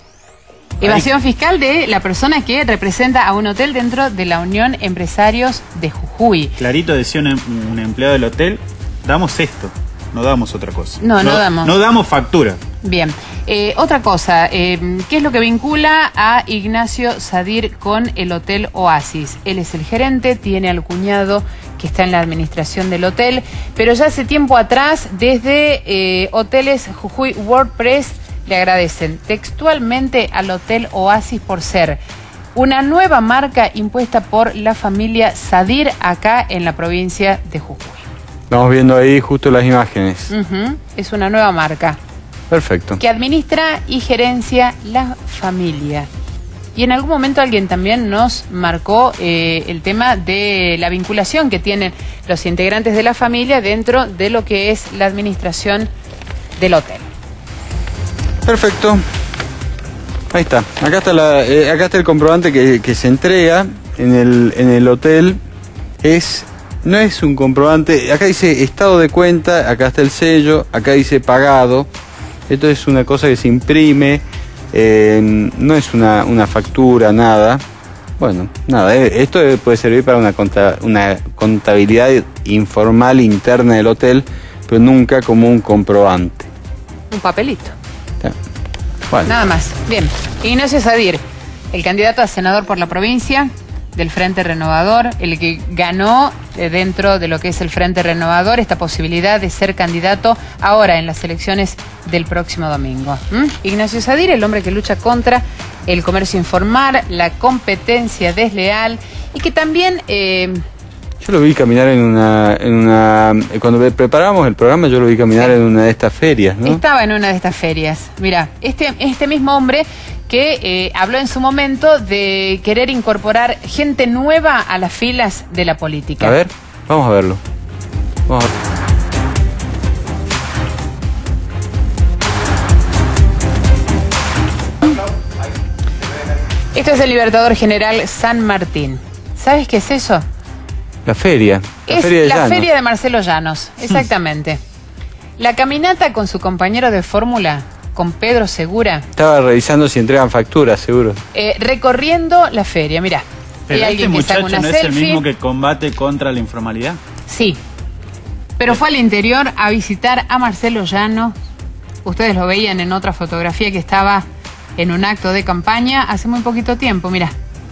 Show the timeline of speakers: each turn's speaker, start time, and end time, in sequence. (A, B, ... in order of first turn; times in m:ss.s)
0:00.8-0:06.5 A
0:00.8-0:01.1 B
0:06.6-0:12.6 B
0:11.0-0:11.7 A
0:12.8-0:32.0 A
0:32.5-0:38.0 A
0:38.5-0:40.3 C
0:40.3-0:42.0 A
0:42.5-0:43.0 C
0:43.0-0:46.1 A
0:46.7-0:55.9 A
0:56.6-0:57.0 A
0:58.4-0:59.0 C
1:00.3-1:05.4 C
1:06.0-1:11.9 C
1:12.5-1:17.6 C
1:18.2-1:26.5 C
1:27.1-1:27.7 A
1:29.2-1:31.2 A
1:31.7-1:50.6 A
1:51.2-1:56.8 C
1:56.7-2:06.4 A
2:06.2-2:07.4 C
2:16.7-2:20.2 A
2:21.0-2:22.7 C
2:21.9-2:24.6 A
2:25.4-2:29.1 A
2:29.2-2:31.2 C
2:31.3-2:35.2 A
2:33.7-2:37.0 B
2:37.3-2:37.6 A
2:38.6-2:41.3 A
2:42.0-2:44.2 A
2:44.8-2:47.3 A